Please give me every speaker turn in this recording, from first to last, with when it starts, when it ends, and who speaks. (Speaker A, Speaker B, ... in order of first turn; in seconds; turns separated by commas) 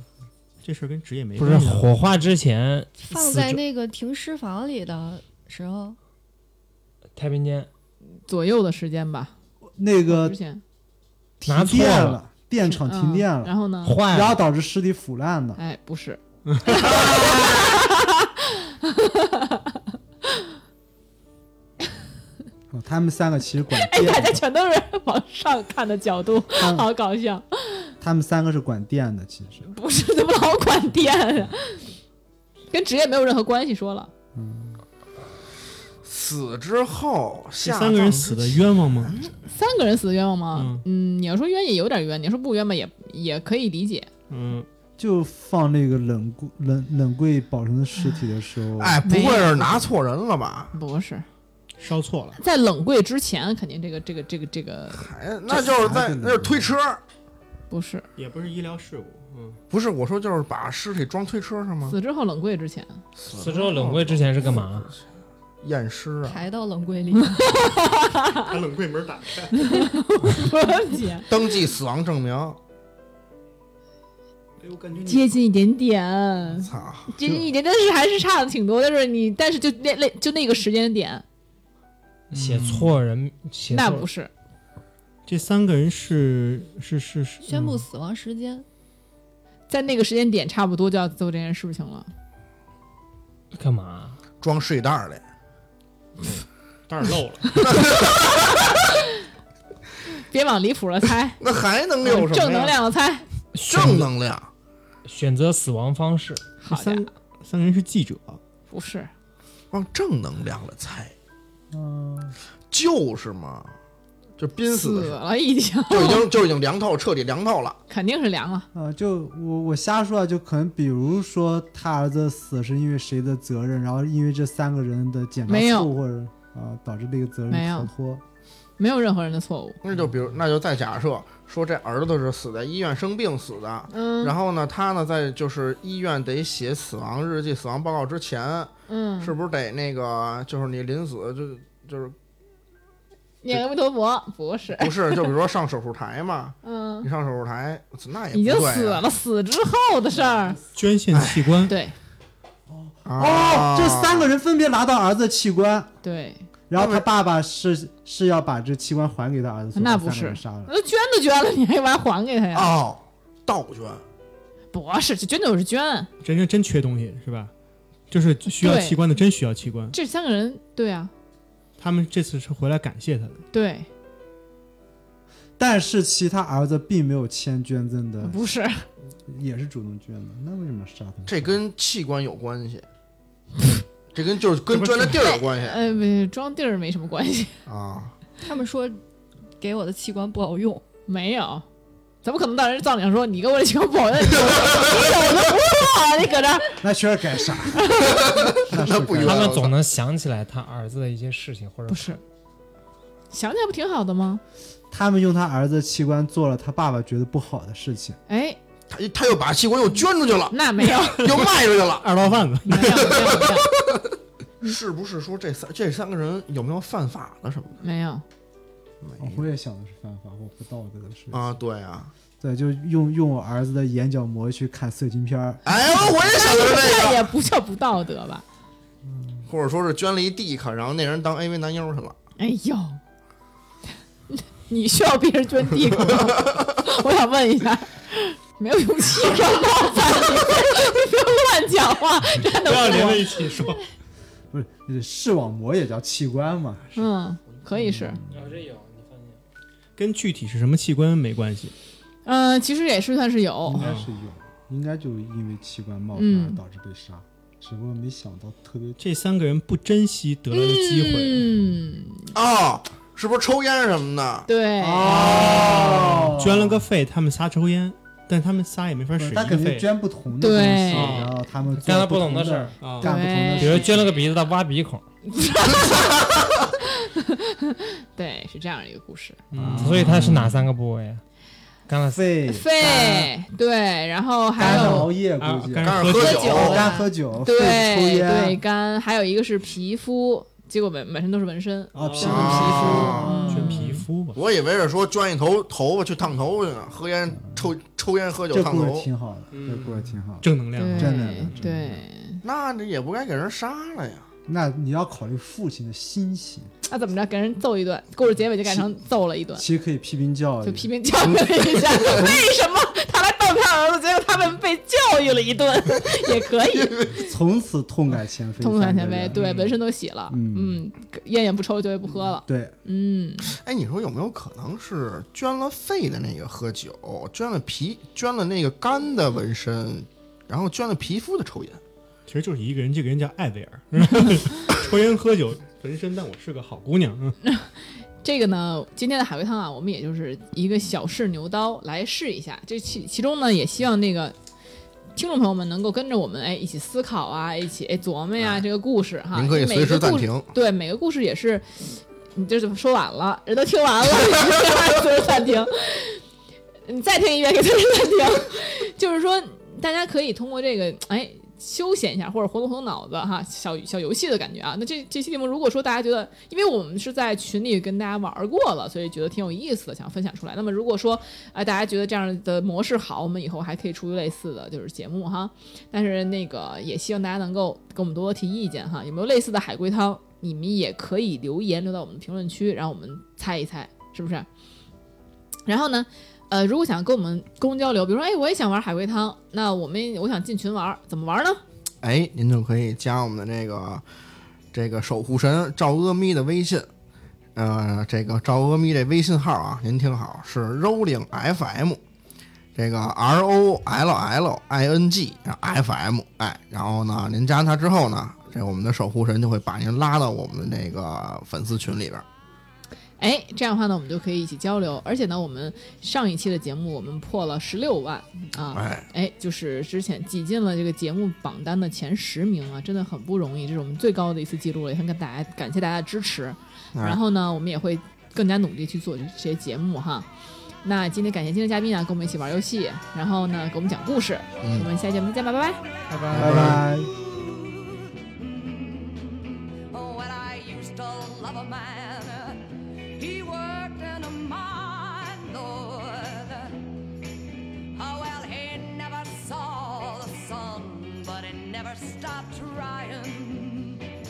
Speaker A: 0.6-1.9, Speaker B: 1.4-3.6, Speaker C: 3.0-6.0, Speaker B: 7.2-7.7, Speaker D: 8.1-9.3, Speaker E: 9.8-10.4, Speaker D: 10.1-10.6, Speaker E: 11.4-15.6, Speaker B: 11.4-12.2, Speaker D: 12.6-14.0, Speaker B: 13.8-14.4, Speaker D: 15.6-19.8, Speaker A: 16.5-16.8, Speaker B: 17.0-17.4, Speaker E: 22.7-24.4, Speaker D: 23.7-27.9, Speaker E: 26.6-26.9, Speaker E: 28.0-29.7, Speaker D: 29.6-31.9, Speaker D: 32.7-34.1, Speaker E: 34.4-34.8, Speaker F: 36.0-39.4, Speaker A: 37.6-39.1, Speaker D: 39.5-44.1, Speaker A: 40.5-40.8, Speaker A: 44.3-44.7, Speaker E: 45.0-49.0, Speaker F: 48.8-50.7, Speaker D: 49.0-49.9, Speaker D: 50.7-51.3, Speaker A: 51.8-52.4, Speaker D: 52.4-55.7, Speaker F: 54.9-57.0, Speaker E: 55.6-56.8, Speaker D: 57.7-58.0, Speaker A: 58.2-59.6, Speaker F: 59.7-62.0, Speaker D: 61.9-63.0, Speaker F: 63.2-65.0, Speaker B: 63.3-64.9, Speaker F: 65.6-66.4, Speaker C: 66.2-67.6, Speaker D: 67.3-68.5, Speaker A: 68.5-69.9, Speaker D: 69.6-71.3, Speaker F: 71.2-72.6, Speaker A: 74.6-75.3, Speaker D: 75.1-81.2, Speaker F: 76.5-77.1, Speaker A: 82.3-82.9, Speaker B: 82.3-84.1, Speaker D: 83.7-84.3, Speaker A: 85.3-87.5, Speaker C: 87.4-88.7, Speaker D: 89.7-92.1, Speaker B: 93.5-94.2, Speaker F: 94.4-95.2, Speaker A: 96.2-97.7, Speaker F: 97.6-98.8, Speaker D: 98.3-98.9, Speaker D: 100.2-101.4, Speaker F: 101.4-102.8, Speaker D: 102.0-103.2, Speaker B: 103.5-104.1, Speaker F: 103.7-104.5, Speaker B: 105.1-106.4, Speaker D: 106.6-107.1, Speaker A: 106.7-108.4, Speaker D: 108.7-109.1, Speaker F: 109.7-111.1, Speaker E: 111.7-112.3, Speaker F: 112.7-113.7, Speaker F: 114.4-115.2, Speaker D: 114.7-116.3, Speaker F: 115.9-117.8, Speaker D: 117.9-118.7, Speaker E: 118.7-128.2, Speaker D: 125.5-125.9, Speaker D: 127.5-127.9, Speaker D: 128.8-129.8, Speaker F: 129.8-142.2, Speaker D: 133.9-134.3, Speaker D: 138.9-139.3, Speaker D: 143.4-145.3, Speaker F: 144.8-149.1, Speaker D: 146.6-147.1, Speaker D: 148.3-150.6, Speaker E: 150.2-150.6, Speaker A: 150.8-151.8, Speaker F: 151.1-151.6, Speaker D: 151.7-151.9, Speaker E: 152.7-155.9, Speaker F: 153.1-154.3, Speaker D: 156.0-156.5, Speaker E: 156.7-160.7, Speaker F: 156.8-157.0, Speaker D: 159.8-162.8, Speaker F: 162.5-164.0, Speaker D: 164.7-166.1, Speaker A: 166.2-167.5, Speaker A: 168.1-169.9, Speaker D: 168.6-169.0, Speaker D: 169.9-171.1, Speaker A: 171.8-173.4, Speaker D: 173.5-173.9, Speaker E: 175.6-178.4, Speaker D: 178.2-178.8, Speaker E: 179.3-181.6, Speaker F: 181.3-182.9, Speaker F: 184.1-185.8, Speaker A: 184.7-185.2, Speaker D: 185.1-187.6, Speaker F: 187.7-188.2, Speaker C: 188.4-189.0, Speaker C: 189.6-190.8, Speaker D: 191.1-191.7, Speaker D: 192.2-196.8, Speaker E: 196.8-198.0, Speaker F: 198.0-199.8, Speaker E: 198.6-199.5, Speaker B: 199.2-202.2, Speaker D: 201.9-202.2, Speaker D: 203.3-204.4, Speaker E: 204.9-208.2, Speaker D: 208.3-208.6, Speaker F: 208.9-212.1, Speaker D: 210.5-211.4, Speaker A: 211.3-213.2, Speaker D: 212.7-213.7, Speaker F: 212.7-214.1, Speaker F: 214.6-217.8, Speaker D: 217.8-218.2, Speaker F: 219.0-219.4, Speaker E: 219.2-221.4, Speaker F: 221.3-222.1, Speaker E: 222.4-226.3, Speaker F: 225.7-227.3, Speaker D: 226.3-228.4, Speaker E: 229.1-229.5, Speaker F: 229.5-232.2, Speaker D: 232.4-233.0, Speaker D: 234.3-243.6, Speaker A: 242.6-243.8, Speaker E: 244.5-246.8, Speaker D: 247.0-248.2, Speaker E: 247.7-248.4, Speaker B: 248.3-249.4, Speaker A: 250.0-251.7, Speaker D: 252.3-253.9, Speaker E: 253.7-259.0, Speaker A: 253.8-254.1, Speaker D: 256.2-256.6, Speaker A: 259.0-261.6, Speaker D: 260.5-262.3, Speaker F: 262.3-264.5, Speaker D: 264.5-265.5, Speaker E: 264.8-266.9, Speaker A: 265.0-269.9, Speaker E: 269.2-274.1, Speaker D: 270.4-271.2, Speaker A: 270.9-271.3, Speaker B: 271.8-272.8, Speaker A: 272.8-273.1, Speaker D: 273.0-273.9, Speaker B: 273.6-275.0, Speaker D: 275.3-276.3, Speaker F: 275.8-276.4, Speaker D: 276.8-279.4, Speaker A: 279.5-280.5, Speaker E: 279.5-280.3, Speaker B: 279.7-281.2, Speaker B: 281.9-282.2, Speaker E: 282.1-283.3, Speaker D: 282.5-285.1, Speaker E: 284.6-288.6, Speaker A: 285.4-286.8, Speaker F: 285.8-286.9, Speaker D: 286.2-286.9, Speaker C: 286.7-287.1, Speaker D: 287.4-293.5, Speaker A: 291.9-294.4, Speaker E: 292.0-294.0, Speaker F: 292.2-293.4, Speaker C: 293.1-293.9, Speaker F: 294.3-299.1, Speaker E: 298.5-302.0, Speaker A: 299.5-301.7, Speaker D: 300.8-302.4, Speaker F: 302.4-304.3, Speaker E: 304.5-306.7, Speaker D: 306.9-309.6, Speaker E: 309.6-312.5, Speaker D: 310.6-317.2, Speaker F: 316.7-317.1, Speaker E: 317.1-319.4, Speaker D: 318.6-323.6, Speaker A: 319.4-319.8, Speaker E: 320.3-320.8, Speaker E: 322.5-322.8, Speaker F: 323.4-331.8, Speaker A: 332.3-337.4, Speaker D: 337.4-344.4, Speaker D: 345.1-356.2, Speaker F: 348.4-348.6, Speaker F: 349.3-350.5, Speaker D: 356.9-384.5, Speaker D: 385.7-391.6, Speaker F: 392.0-394.1, Speaker F: 394.7-396.9, Speaker F: 397.6-402.0, Speaker F: 402.8-412.2, Speaker D: 413.2-430.3, Speaker F: 418.7-419.1, Speaker F: 426.9-427.2, Speaker D: 430.8-435.8, Speaker F: 434.6-434.9, Speaker A: 436.1-436.8, Speaker E: 436.3-437.1, Speaker F: 436.4-436.8, Speaker G: 436.9-439.3, Speaker G: 439.9-442.6, Speaker G: 443.2-446.8, Speaker G: 447.9-454.0